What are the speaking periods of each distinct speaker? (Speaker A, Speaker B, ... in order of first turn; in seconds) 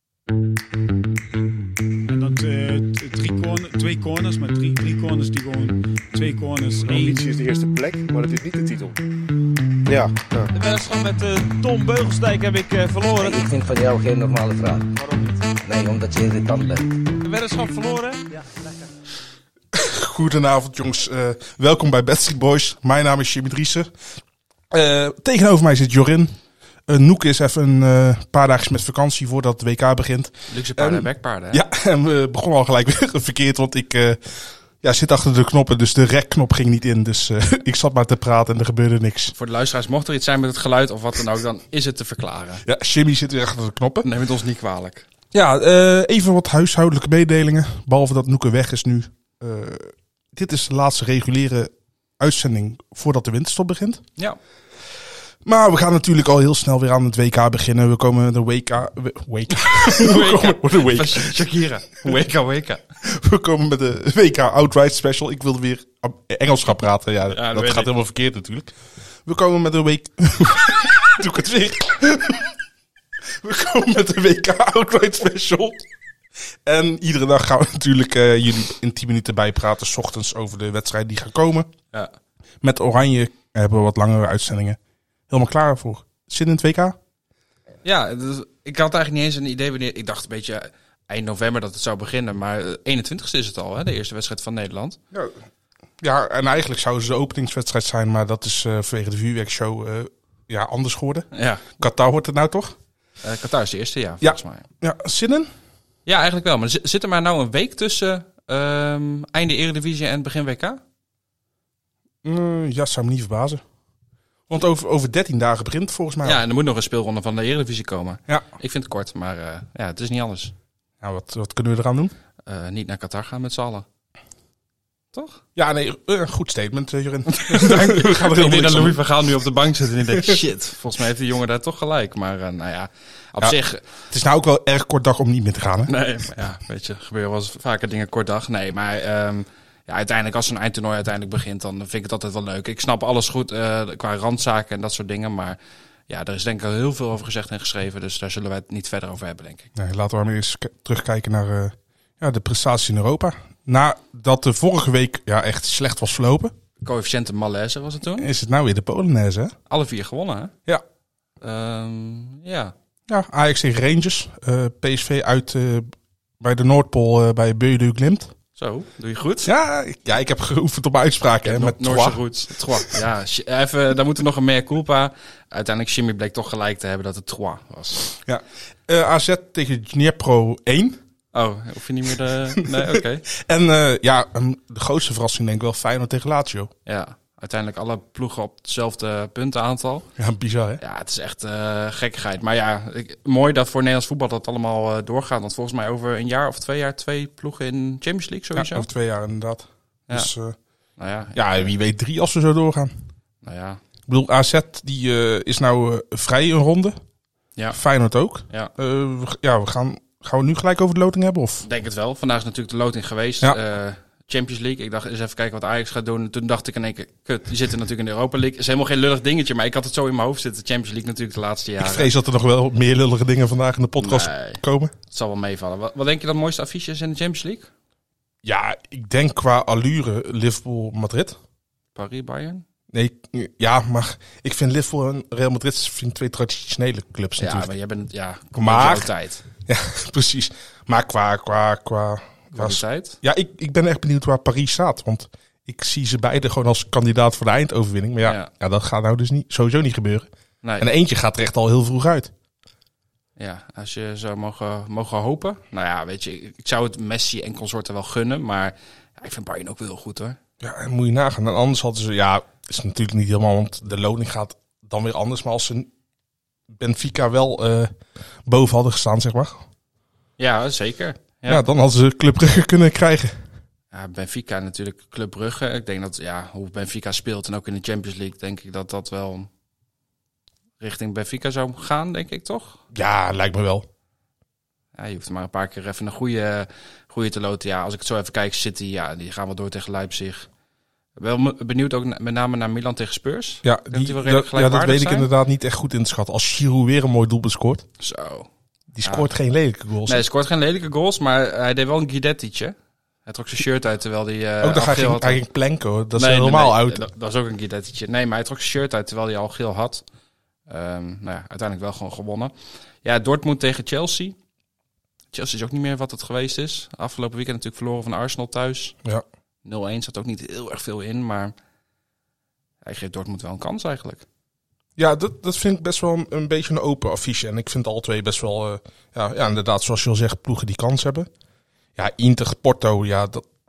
Speaker A: 2.1-7.2
Speaker B: 6.8-9.0, 9.9-10.5
Speaker C: 10.5-13.4, 15.0-15.5, 17.2-18.2
Speaker D: 13.1-14.9, 15.6-16.9
Speaker E: 19.7-23.9, 24.7-26.4, 26.9-39.3, 42.6-44.1, 45.3-54.0, 55.5-61.4, 63.0-68.7, 69.2-72.5, 73.4-75.8, 76.7-81.7, 82.6-84.8, 85.3-87.0, 96.0-102.8, 104.2-105.5, 112.2-113.6, 114.5-116.4, 121.0-122.1, 125.5-129.0, 130.1-130.4, 134.1-135.9, 149.8-156.5, 158.2-159.6, 163.1-168.3, 169.4-172.2, 178.2-181.0, 182.6-186.7, 190.2-190.8, 198.5-200.6, 201.3-202.9, 204.1-207.0, 207.7-211.7, 221.8-224.9, 228.4-231.4, 232.9-237.7, 238.6-239.1, 239.7-250.3, 250.8-252.3, 260.6-265.9, 266.7-267.9, 268.5-269.6, 271.5-273.4, 282.9-283.9, 293.6-297.8, 298.9-300.2, 304.6-307.0, 325.0-331.3, 332.0-333.5
Speaker F: 30.5-31.6, 39.4-42.6, 44.0-45.1, 59.5-62.8, 67.3-67.9, 87.8-95.0, 101.3-101.7, 103.2-104.7, 106.1-110.8, 116.2-120.5, 122.5-123.8, 125.1-125.4, 127.3-133.8, 135.9-145.6, 146.1-149.7, 156.8-158.3, 159.7-160.5, 161.4-162.7, 168.6-169.5, 171.4-178.1, 181.3-183.3, 186.9-190.1, 190.8-198.9, 201.0-201.7, 203.4-203.8, 211.6-222.1, 224.0-227.7, 231.9-232.6, 237.4-239.4, 242.5-243.2, 248.2-248.5, 250.6-250.9, 253.4-260.4, 270.4-271.6, 273.9-279.5, 280.8-282.8, 285.0-290.5, 291.2-295.3, 298.0-298.5, 300.1-302.8, 303.3-305.4, 306.1-310.0, 310.7-314.4, 315.3-318.9, 319.6-321.5, 322.8-324.2